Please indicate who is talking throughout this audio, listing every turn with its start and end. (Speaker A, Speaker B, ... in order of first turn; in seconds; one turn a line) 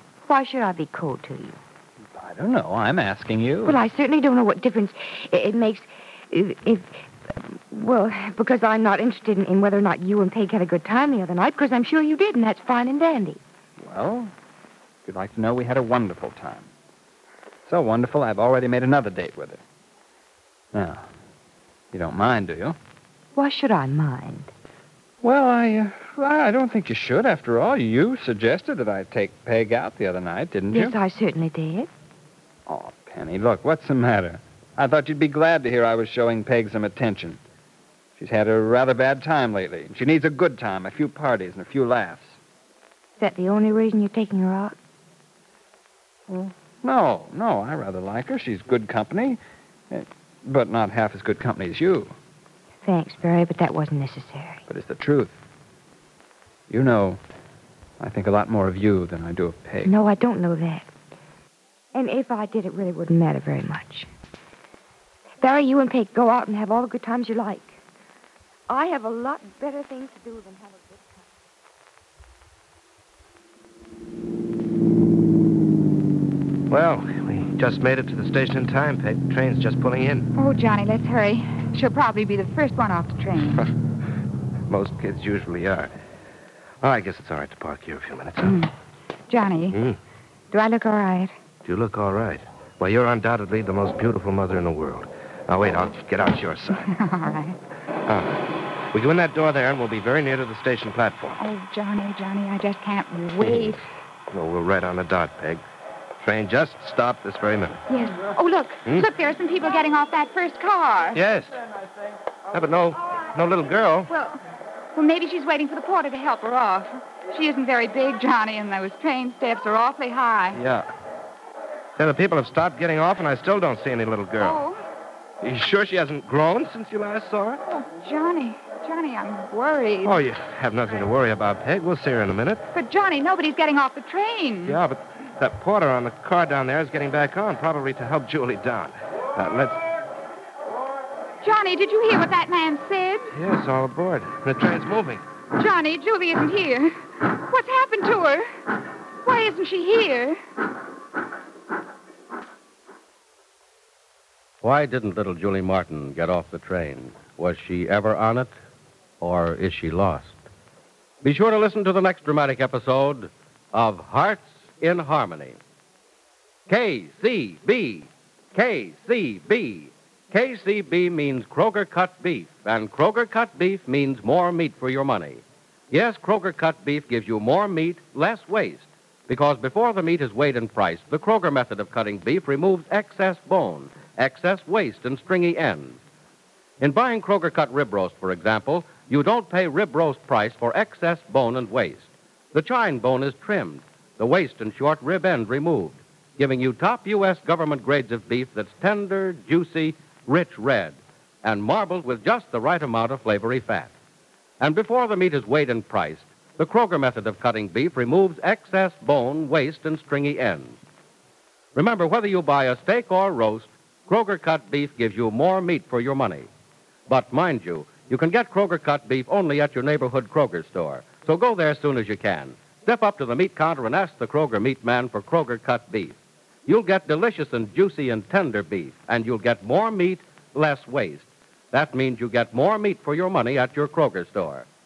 Speaker A: 0.2-1.6
Speaker B: 2.1-3.8
Speaker A: 3.6-13.4
Speaker B: 13.8-14.3
Speaker B: 15.1-16.7
Speaker B: 17.7-19.6
Speaker B: 20.7-21.0
Speaker B: 21.9-22.8
Speaker A: 23.4-24.5
Speaker B: 25.2-30.9
Speaker A: 30.7-31.9
Speaker B: 32.7-37.4
Speaker B: 38.2-42.4
Speaker A: 43.2-44.7
Speaker B: 46.3-49.4
Speaker B: 49.9-52.1
Speaker A: 52.8-54.6
Speaker B: 54.7-55.4
Speaker B: 56.7-57.2
Speaker B: 58.0-59.9
Speaker A: 59.8-60.9
Speaker A: 61.9-64.1
Speaker A: 65.4-67.8
Speaker A: 68.7-71.2
Speaker C: 76.7-80.3
Speaker D: 80.3-83.7
Speaker C: 84.7-85.9
Speaker C: 86.8-88.5
Speaker D: 88.4-88.7
Speaker D: 89.3-89.8
Speaker D: 90.5-91.3
Speaker C: 91.6-96.9
Speaker D: 96.7-97.5
Speaker C: 98.1-101.4
Speaker D: 101.4-103.8
Speaker C: 103.4-103.7
Speaker C: 104.3-105.6
Speaker C: 106.2-107.8
Speaker D: 107.9-111.2
Speaker C: 111.2-111.5
Speaker C: 112.5-114.1
Speaker D: 114.1-114.4
Speaker D: 114.9-120.6
Speaker C: 122.0-124.6
Speaker D: 124.3-124.8
Speaker C: 125.4-127.8
Speaker D: 127.9-130.2
Speaker C: 130.1-132.6
Speaker D: 132.7-134.8
Speaker C: 134.7-139.8
Speaker D: 141.4-143.3
Speaker C: 143.3-145.2
Speaker D: 145.6-148.4
Speaker D: 149.2-150.4
Speaker E: 154.6-158.5
Speaker E: 159.2-160.4
Speaker E: 161.2-165.6
Speaker E: 166.7-186.0
Speaker E: 186.8-203.9
Speaker E: 204.6-210.8
Speaker E: 211.7-216.5
Speaker E: 217.1-234.7